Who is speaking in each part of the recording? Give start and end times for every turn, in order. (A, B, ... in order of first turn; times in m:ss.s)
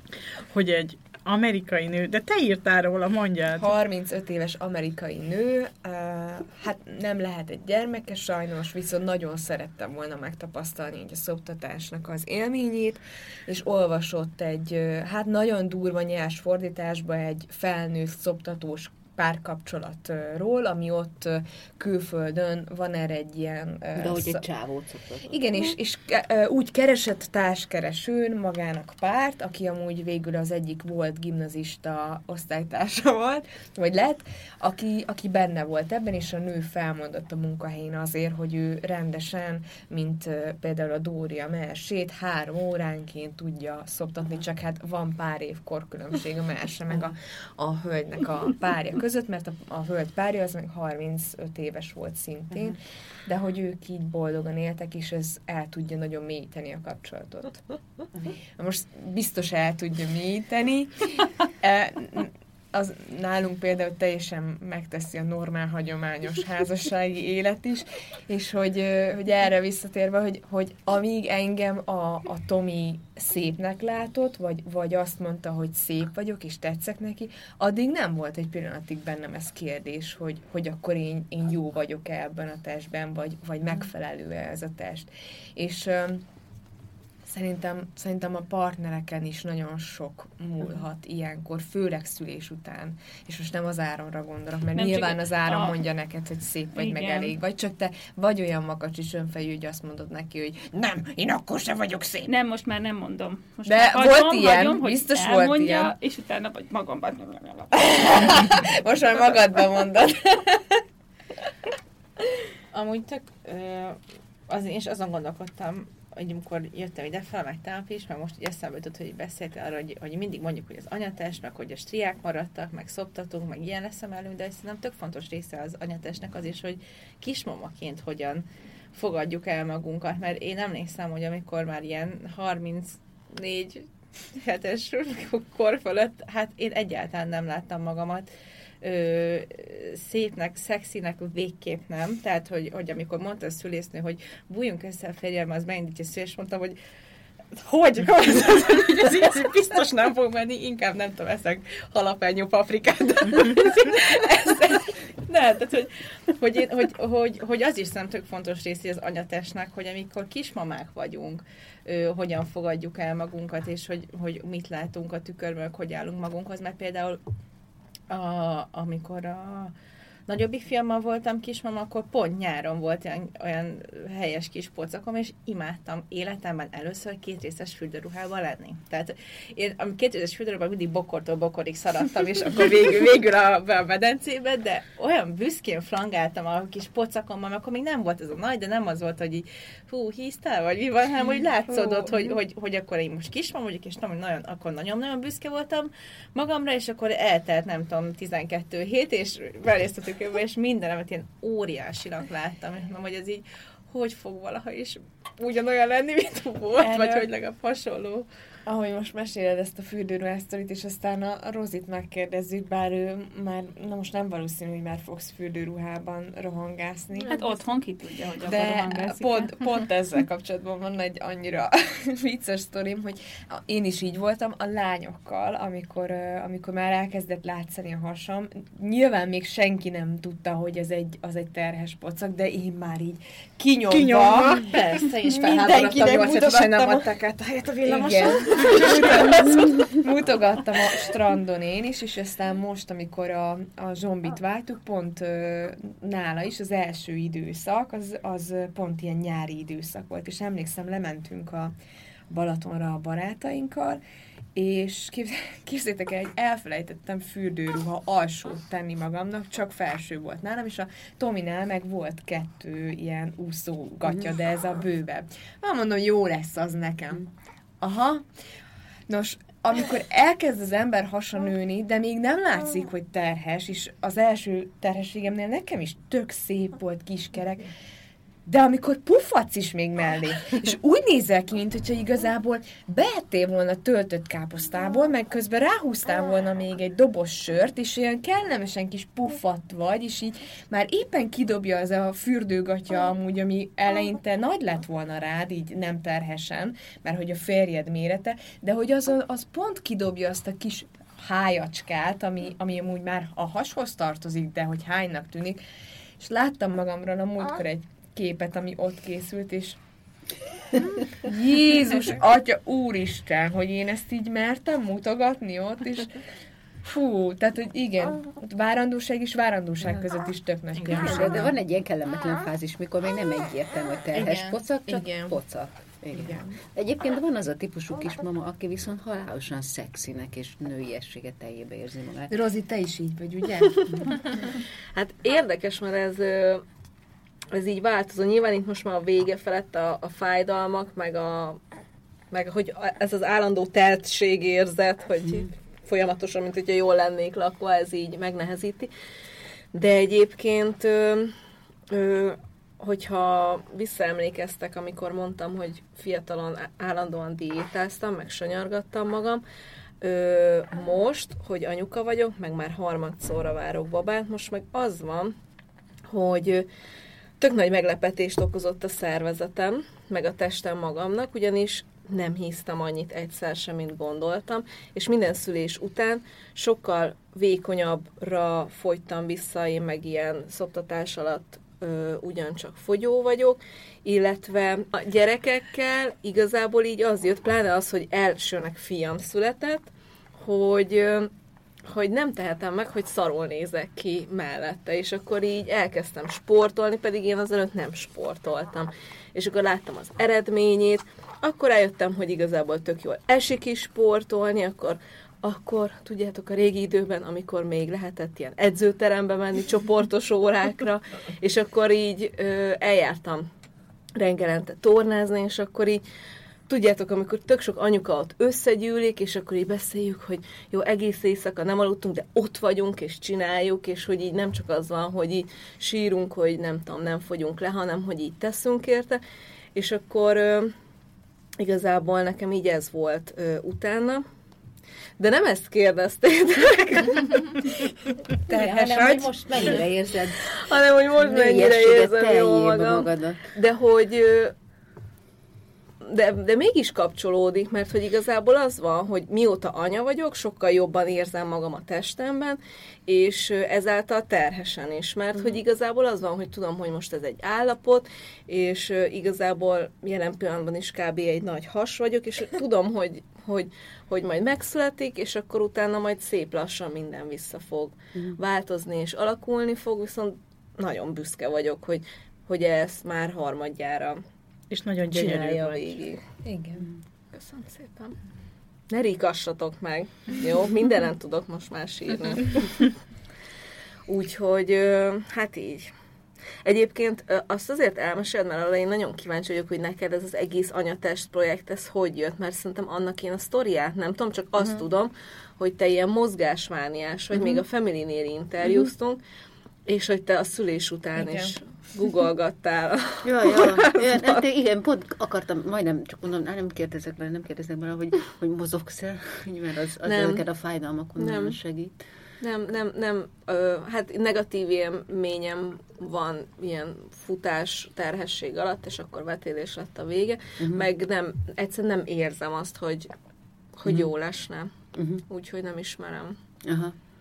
0:00.5-0:03.7 A
0:03.5-0:24.4 B
0:24.0-0:25.7 C
0:25.3-0:57.6 B
0:58.6-1:26.3 B
1:27.2-1:42.3 B
1:34.8-1:35.8 D
1:36.7-1:37.4 D
1:42.2-1:48.5 D
1:43.7-1:45.9 B
1:47.9-1:50.8 B
1:52.7-2:18.3 E
2:18.8-2:26.8 E
2:27.5-2:47.2 E
2:48.1-2:49.7 E
2:50.3-3:28.3 E
3:11.8-3:12.3 B
3:26.8-3:27.3 B
3:28.7-3:37.6 B
3:37.2-3:39.7 D
3:38.4-3:57.1 B
3:53.9-3:54.7 A
3:54.7-3:59.9 E
3:57.8-4:11.7 B
4:12.3-4:14.0 B
4:14.6-4:27.3 B
4:27.8-4:28.3 B
4:29.1-4:37.7 B
4:38.5-5:05.6 B
5:06.2-5:09.8 B
5:11.2-5:16.2 B
5:16.8-5:21.5 B
5:20.8-5:21.1 E
5:20.9-5:32.4 C
5:24.9-5:25.4 B
5:26.1-5:26.6 B
5:32.3-5:33.9 B
5:33.6-5:36.6 F
5:37.5-5:41.6 F
5:42.3-5:48.9 F
5:49.7-5:51.3 F
5:51.9-5:59.4 F
6:00.0-6:05.3 F
6:06.1-6:06.7 F
6:07.4-6:31.3 F
6:31.8-6:53.5 F
6:54.2-6:56.0 F
6:56.7-7:09.2 F
7:09.8-7:10.7 F
7:11.6-7:14.2 F
7:15.2-7:17.8 F
7:18.5-7:20.6 C
7:20.5-7:24.5 F
7:21.2-7:23.5 C
7:26.0-7:54.2 F
7:54.7-7:56.0 A
7:55.1-7:56.2 F
7:56.4-7:56.8 B
7:57.3-7:58.2 F
7:58.9-8:03.0 F
8:04.1-8:05.9 F
8:06.6-8:19.2 F
8:19.9-8:24.4 F
8:21.2-8:21.5 B
8:23.2-8:32.0 C
8:30.0-8:30.4 F
8:31.2-8:31.6 F
8:32.4-8:43.1 F
8:40.6-8:40.8 C
8:43.8-8:44.7 F
8:45.0-8:45.2 C
8:45.3-8:46.4 F
8:46.6-8:47.0 C